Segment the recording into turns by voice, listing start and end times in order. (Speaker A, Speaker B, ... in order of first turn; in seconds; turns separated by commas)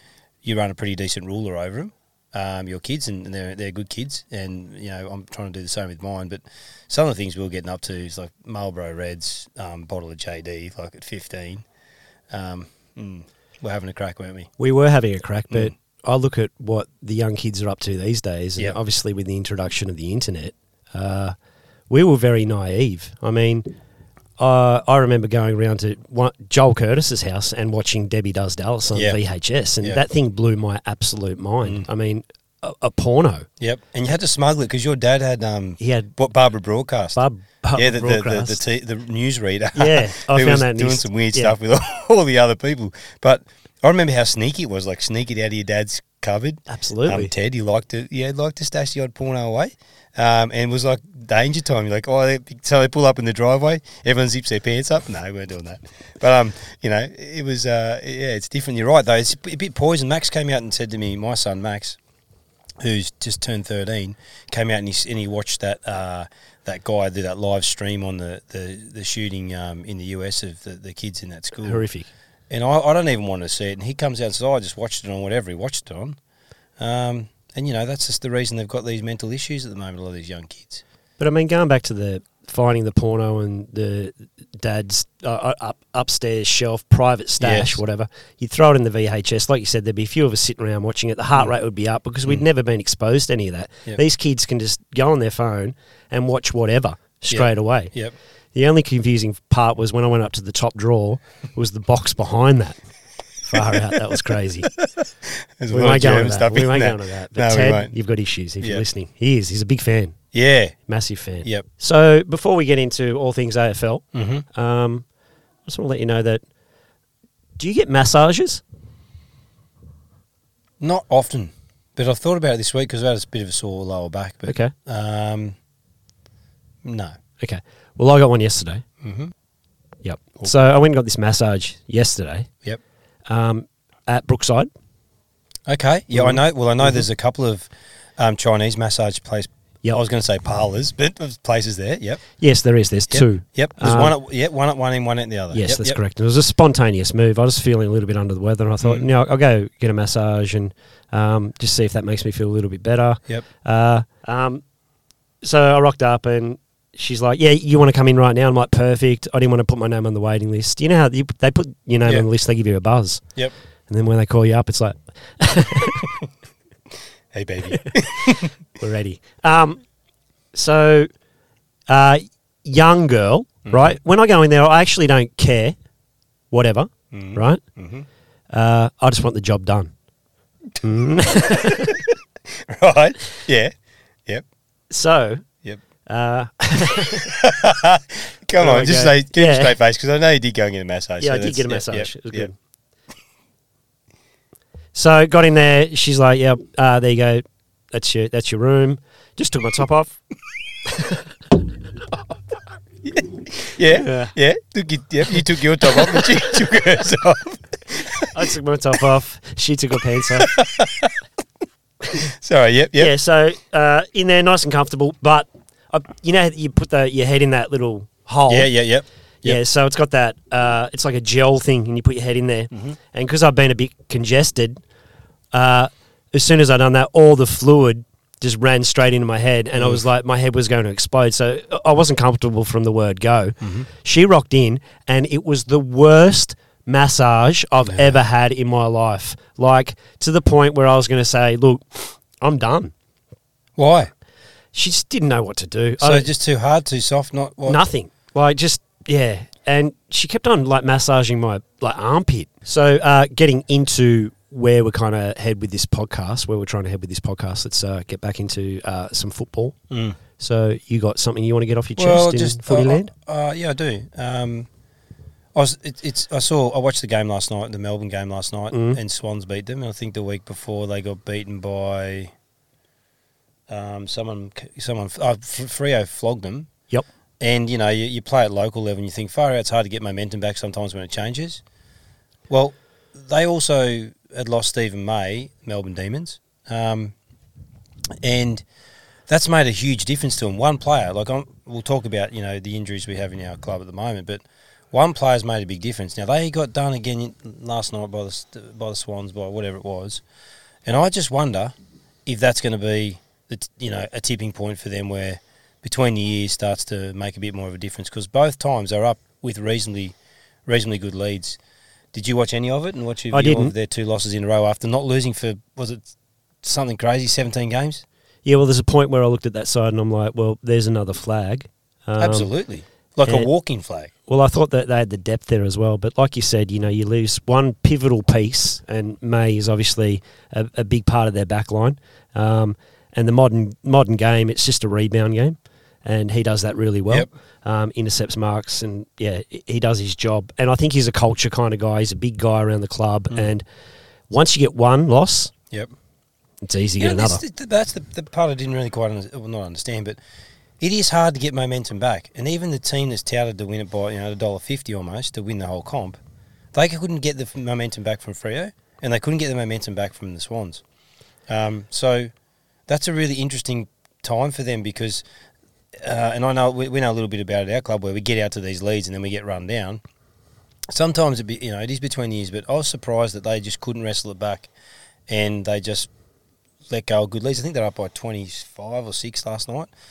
Speaker A: 0.4-14.5, Speaker B: 14.6-23.8, Speaker B: 24.4-33.5, Speaker A: 28.9-30.0, Speaker A: 33.6-62.0, Speaker B: 35.8-36.1, Speaker B: 37.1-38.6, Speaker B: 39.8-41.5, Speaker B: 46.7-47.3, Speaker A: 62.8-71.9, Speaker B: 71.6-72.1, Speaker A: 72.5-76.2, Speaker A: 76.8-80.8, Speaker B: 81.2-104.8, Speaker A: 87.4-87.8, Speaker A: 97.3-98.1, Speaker A: 105.6-108.8, Speaker B: 105.7-116.5, Speaker A: 110.3-111.6, Speaker A: 114.1-114.4, Speaker B: 117.6-118.6, Speaker A: 120.8-125.6, Speaker B: 124.5-124.7, Speaker A: 126.8-127.2, Speaker B: 127.4-128.8, Speaker A: 129.0-129.3, Speaker B: 130.0-132.7, Speaker B: 133.2-134.7, Speaker A: 135.7-142.4, Speaker B: 136.1-137.0, Speaker B: 142.4-144.1, Speaker A: 143.1-146.0, Speaker B: 145.5-154.8, Speaker B: 155.4-166.0, Speaker A: 167.3-168.5, Speaker B: 168.8-171.2, Speaker B: 171.9-175.8, Speaker A: 173.7-173.9, Speaker B: 176.5-177.8, Speaker A: 177.1-178.1, Speaker B: 178.5-180.0, Speaker B: 180.8-181.9, Speaker A: 182.7-184.4, Speaker B: 184.9-187.2, Speaker A: 187.5-192.5, Speaker B: 188.6-189.7, Speaker B: 191.2-192.5, Speaker B: 194.9-200.2, Speaker A: 203.0-208.3, Speaker B: 203.9-204.3, Speaker B: 208.3-210.5, Speaker A: 210.4-211.1, Speaker A: 212.4-213.1, Speaker B: 213.0-218.7, Speaker A: 218.5-219.6, Speaker B: 219.4-224.8, Speaker A: 222.7-223.0, Speaker B: 225.5-242.9, Speaker A: 229.8-230.0, Speaker A: 233.6-233.9, Speaker A: 237.9-238.2, Speaker A: 243.8-244.1, Speaker B: 244.7-246.3, Speaker A: 246.0-247.8, Speaker B: 247.7-263.1, Speaker A: 259.9-260.2, Speaker A: 262.0-264.7, Speaker A: 265.5-272.3, Speaker B: 268.7-269.0, Speaker A: 273.7-281.7, Speaker A: 282.5-287.1, Speaker A: 288.2-288.7, Speaker A: 289.2-300.2, Speaker A: 300.8-301.7, Speaker A: 302.2-310.1, Speaker A: 310.6-311.6, Speaker A: 312.1-318.0, Speaker B: 313.3-313.7, Speaker B: 318.4-322.5, Speaker A: 322.2-324.1, Speaker B: 323.2-323.5, Speaker B: 324.3-343.6, Speaker B: 344.3-345.5, Speaker B: 346.6-347.4, Speaker A: 347.0-350.2, Speaker A: 350.8-356.2, Speaker A: 356.7-360.9, Speaker A: 361.4-365.2, Speaker A: 366.0-370.0, Speaker A: 370.9-374.7, Speaker A: 375.3-376.1, Speaker A: 376.9-379.9